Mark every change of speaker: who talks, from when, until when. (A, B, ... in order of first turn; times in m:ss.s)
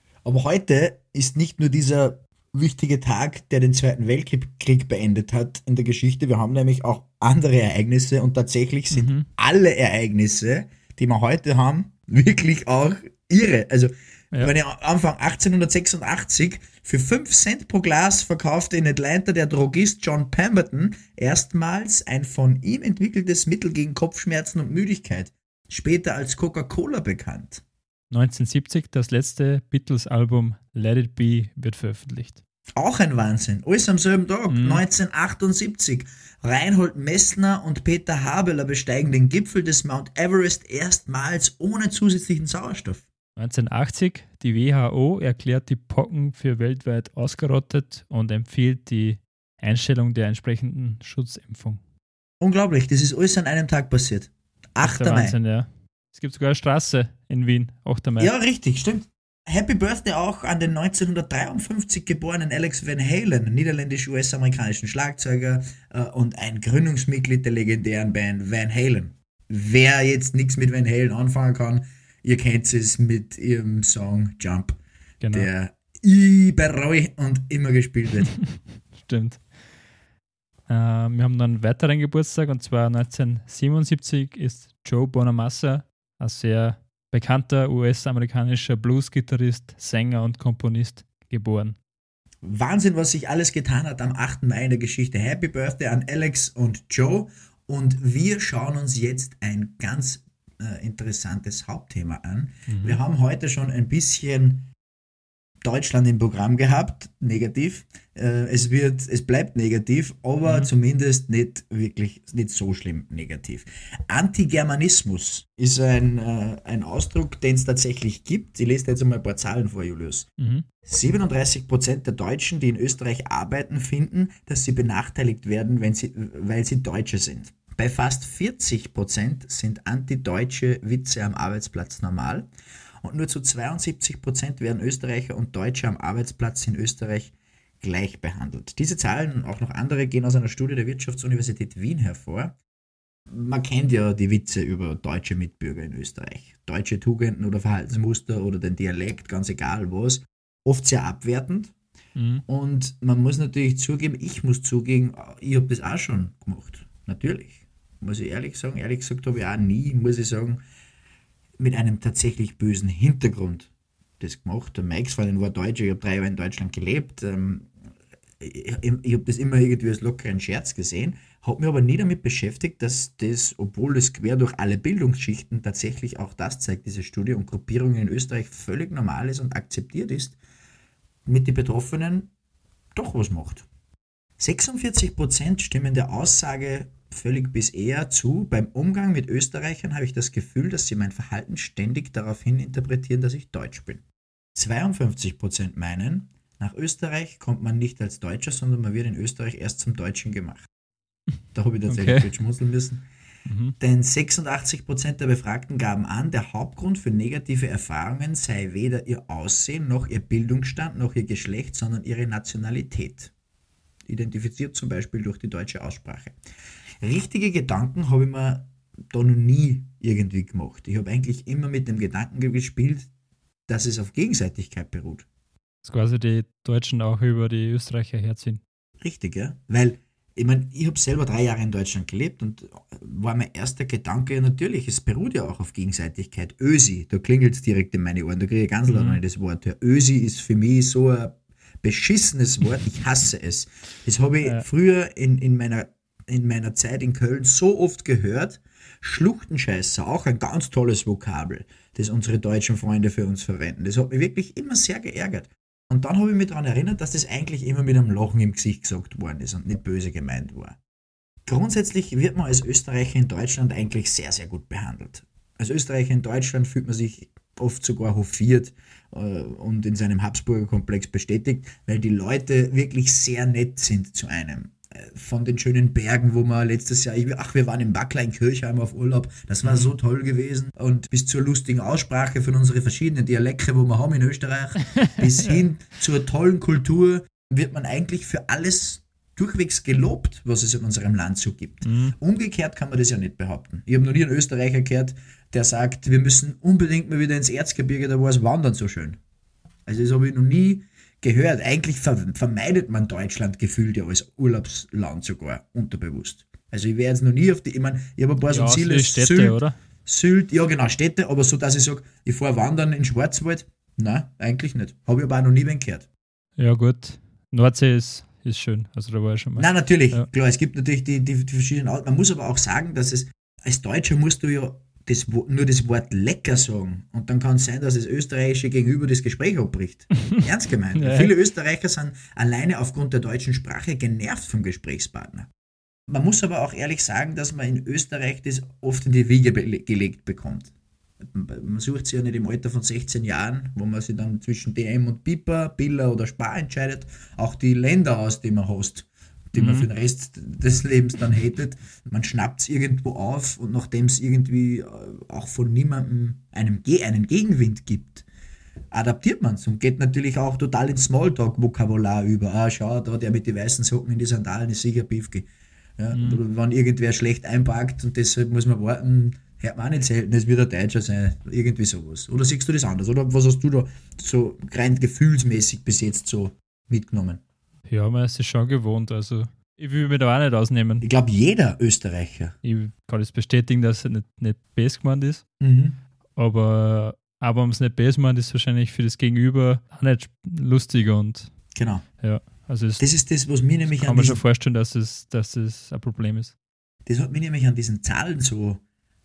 0:00.2-0:27.6 A
0:08.9-0:09.3 B
0:28.1-0:32.4 B
0:32.8-0:43.0 A
0:34.5-0:34.8 B
0:43.4-0:51.8 B
0:52.4-0:55.4 A
0:54.8-0:58.3 B
0:58.2-1:14.8 A
1:15.2-1:15.5 B
1:15.3-1:18.3 A
1:18.3-1:19.4 B
1:20.7-1:31.8 B
1:32.4-1:44.7 A
1:42.7-1:43.0 B
1:45.6-2:00.3 A
1:50.4-1:50.7 B
2:00.4-2:00.6 B
2:00.8-2:12.5 A
2:13.0-2:22.6 A
2:23.3-2:31.7 A
2:32.2-2:32.4 B
2:32.5-2:40.6 A
2:41.6-2:47.7 A
2:48.4-3:00.4 A
3:01.2-3:02.3 A
3:02.9-3:03.6 A
3:04.4-3:14.0 A
3:14.5-3:20.6 A
3:21.5-3:23.0 A
3:21.9-3:22.3 B
3:23.4-3:23.8 B
3:23.8-3:33.3 A
3:34.1-3:36.4 A
3:37.0-3:43.1 A
3:43.7-3:45.2 A
3:45.8-3:48.6 B
3:49.0-4:20.8 A
3:58.9-3:59.2 B
4:21.4-4:59.2 A
4:39.6-4:39.9 B
4:45.0-4:45.6 B
4:51.8-4:52.1 B
4:59.8-5:16.1 A
5:08.5-5:09.8 B
5:16.6-5:20.3 B
5:19.6-5:35.5 A
5:30.9-5:31.3 B
5:36.1-5:58.2 A
5:49.6-5:49.9 B
5:58.9-6:05.5 A
6:06.0-6:17.4 A
6:06.1-6:06.4 B
6:17.9-6:21.0 B
6:21.0-6:22.6 A
6:22.6-6:25.4 B
6:25.6-6:26.0 A
6:26.4-6:31.5 B
6:31.7-6:32.0 A
6:32.2-6:33.0 B
6:33.0-6:34.4 A
6:33.8-6:36.5 B
6:37.0-6:38.8 A